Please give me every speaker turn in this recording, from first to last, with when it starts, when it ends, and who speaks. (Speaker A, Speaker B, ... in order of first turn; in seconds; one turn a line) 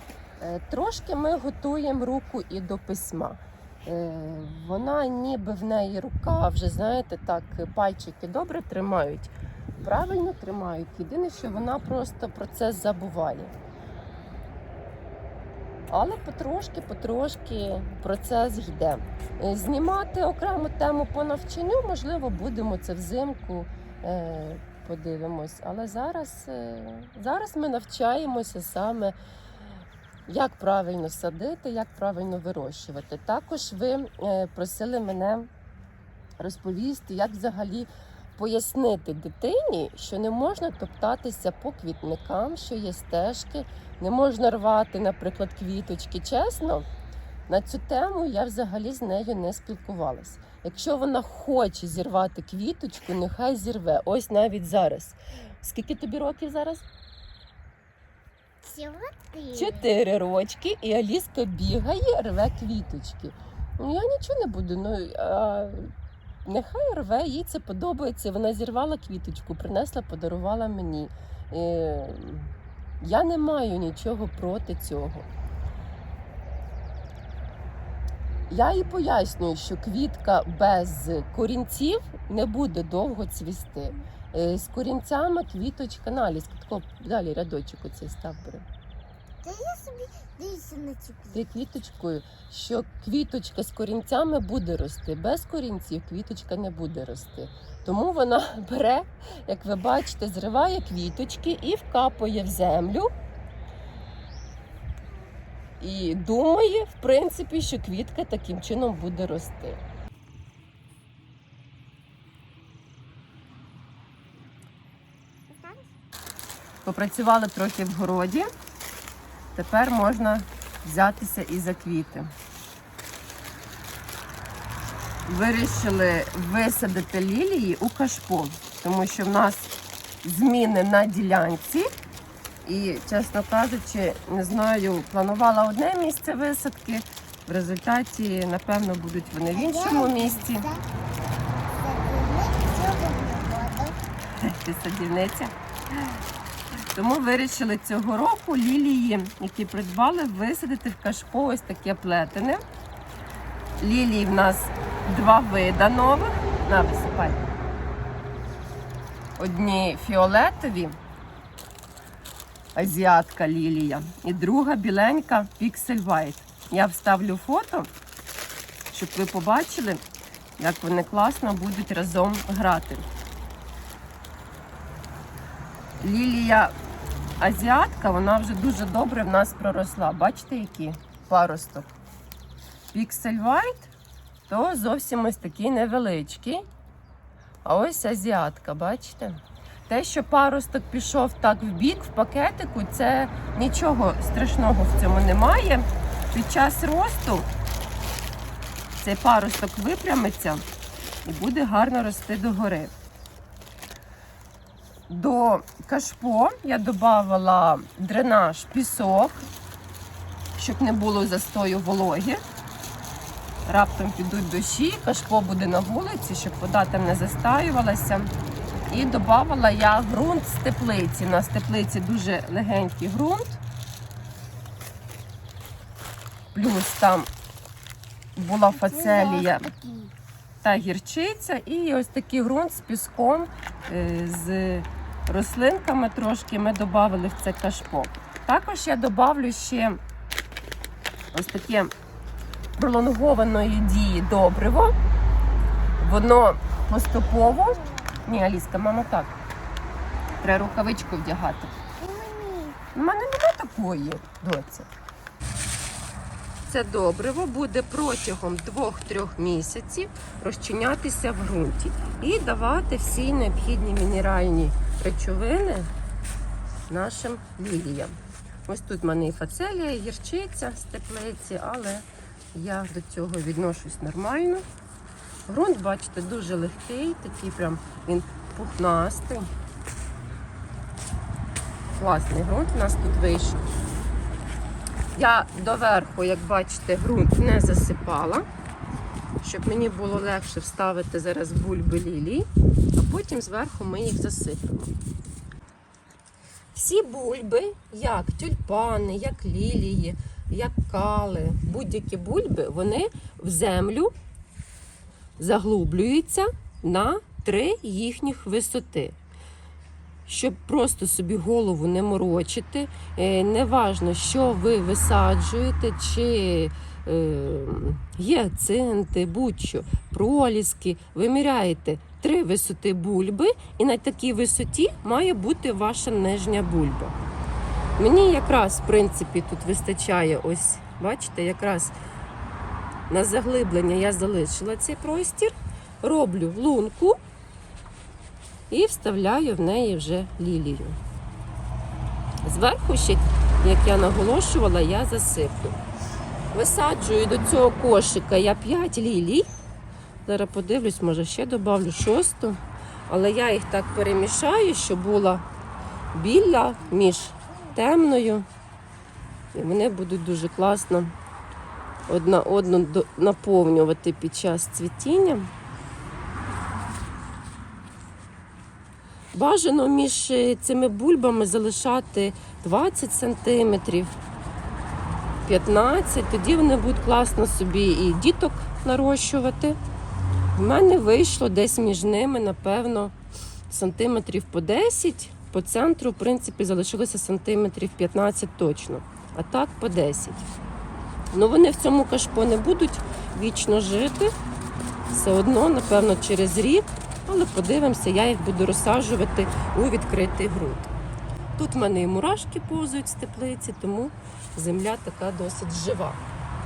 Speaker A: 0.4-13.5
Speaker A: 15.9-29.2
Speaker A: 30.3-35.5
Speaker A: 36.4-46.9
Speaker A: 47.5-56.8
Speaker B: 58.6-59.9
Speaker A: 59.5-65.9
Speaker A: 66.5-75.3
Speaker A: 78.5-88.7
Speaker B: 89.4-91.4
Speaker A: 91.3-103.1
Speaker A: 105.8-109.8
Speaker B: 115.5-115.8
Speaker A: 116.8-118.5
Speaker A: 119.5-122.3
Speaker A: 125.3-131.9
Speaker A: 132.7-140.7
Speaker B: 139.5-140.8
Speaker B: 141.8-144.0
Speaker A: 144.4-145.5
Speaker A: 146.9-152.6
Speaker A: 153.8-157.5
Speaker A: 159.4-161.0
Speaker A: 162.8-167.9
Speaker A: 168.9-170.0
Speaker A: 170.6-173.1
Speaker A: 176.0-176.8
Speaker A: 177.4-181.9
Speaker A: 182.9-183.9
Speaker A: 184.5-186.7
Speaker A: 187.7-197.5
Speaker A: 199.0-200.7
Speaker A: 201.2-202.9
Speaker A: 205.1-209.5
Speaker A: 210.6-212.4
Speaker A: 213.7-218.3
Speaker A: 218.9-223.6
Speaker A: 226.5-227.3
Speaker A: 228.4-229.7
Speaker B: 228.7-230.1
Speaker A: 230.6-240.0
Speaker A: 241.3-241.9
Speaker A: 242.8-245.0
Speaker A: 246.0-249.4
Speaker B: 247.4-248.0
Speaker A: 250.4-251.7
Speaker B: 252.0-252.8
Speaker A: 252.9-254.9
Speaker A: 256.7-265.9
Speaker A: 266.9-274.6
Speaker A: 275.5-279.5
Speaker A: 282.0-283.6
Speaker A: 285.2-288.5
Speaker A: 289.4-294.9
Speaker A: 296.7-304.1
Speaker A: 305.4-309.2
Speaker A: 310.3-327.1
Speaker A: 328.0-331.9
Speaker A: 333.1-337.2
Speaker A: 338.7-341.0
Speaker A: 342.4-345.8
Speaker A: 346.5-349.5
Speaker A: 350.3-355.4
Speaker A: 356.1-358.5
Speaker A: 359.5-361.1
Speaker A: 362.1-365.5
Speaker A: 369.3-374.2
Speaker A: 375.5-379.8
Speaker A: 380.6-383.1
Speaker A: 383.7-390.5
Speaker A: 391.3-394.3
Speaker A: 395.1-400.9
Speaker A: 401.6-406.2